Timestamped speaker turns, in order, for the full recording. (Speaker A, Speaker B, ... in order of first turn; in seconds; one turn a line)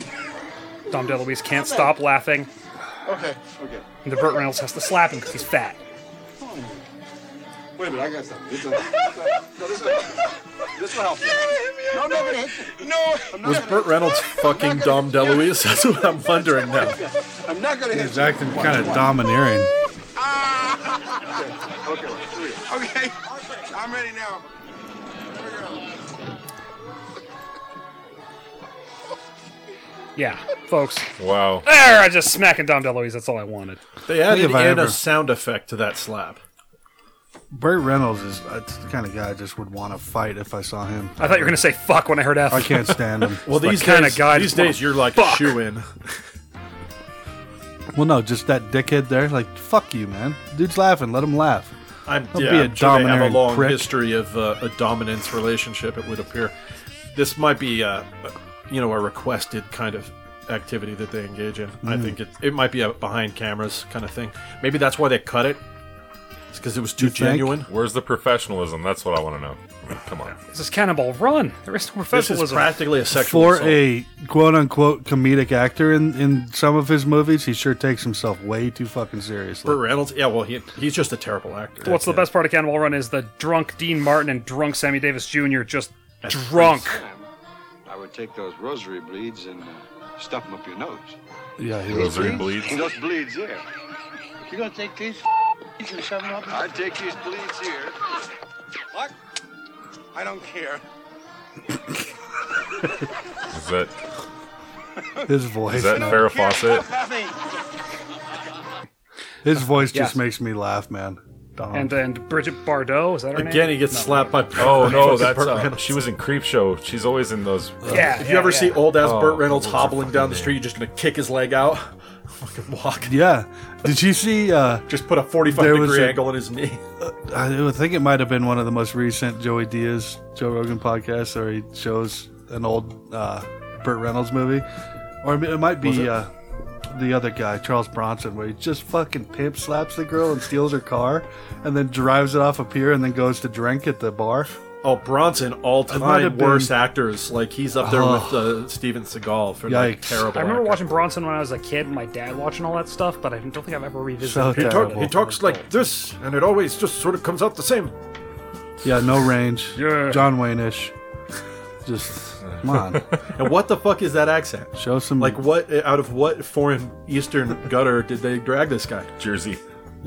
Speaker A: 0.9-2.5
Speaker B: 3.0-3.8
Speaker A: 4.0-5.8
Speaker B: 6.5-6.7
Speaker B: 7.8-15.4
Speaker C: 13.4-17.0
Speaker B: 16.8-19.1
Speaker D: 17.9-19.7
Speaker B: 20.2-24.5
Speaker B: 25.4-25.9
Speaker A: 30.1-31.1
Speaker E: 31.2-31.7
Speaker A: 31.6-33.8
Speaker C: 34.1-36.4
Speaker D: 34.2-35.0
Speaker D: 37.5-41.2
Speaker A: 41.2-45.5
Speaker D: 42.5-43.5
Speaker C: 43.4-46.2
Speaker D: 47.9-51.7
Speaker C: 52.0-56.5
Speaker D: 52.3-53.9
Speaker C: 57.1-65.6
Speaker D: 61.8-62.1
Speaker C: 66.5-67.7
Speaker D: 67.0-67.6
Speaker E: 67.7-70.4
Speaker A: 70.4-72.7
Speaker C: 72.1-73.8
Speaker D: 73.1-79.8
Speaker C: 79.6-82.2
Speaker A: 81.8-87.0
Speaker C: 86.2-86.8
Speaker B: 86.6-87.3
Speaker B: 87.8-91.2
Speaker D: 91.6-92.5
Speaker E: 91.9-93.0
Speaker B: 91.9-93.6
Speaker B: 94.5-95.2
Speaker B: 95.8-98.0
Speaker B: 100.1-100.8
Speaker E: 103.5-103.9
Speaker D: 105.3-106.3
Speaker E: 105.7-106.9
Speaker B: 106.1-107.3
Speaker D: 109.4-111.9
Speaker A: 109.9-110.2
Speaker A: 111.7-114.4
Speaker C: 113.3-116.1
Speaker E: 114.5-118.0
Speaker A: 117.9-118.9
Speaker C: 117.9-123.2
Speaker E: 118.9-120.6
Speaker D: 123.0-124.8
Speaker C: 124.9-126.8
Speaker D: 125.5-126.2
Speaker D: 127.0-134.7
Speaker D: 135.2-136.3
Speaker C: 135.8-136.2
Speaker D: 136.9-144.6
Speaker C: 144.8-151.0
Speaker D: 145.9-146.7
Speaker D: 147.8-148.7
Speaker D: 149.7-150.3
Speaker A: 150.3-155.7
Speaker D: 154.2-155.1
Speaker C: 154.5-157.9
Speaker D: 158.8-160.9
Speaker A: 159.8-160.3
Speaker D: 161.8-163.1
Speaker C: 163.3-169.1
Speaker D: 164.8-165.4
Speaker E: 169.2-169.6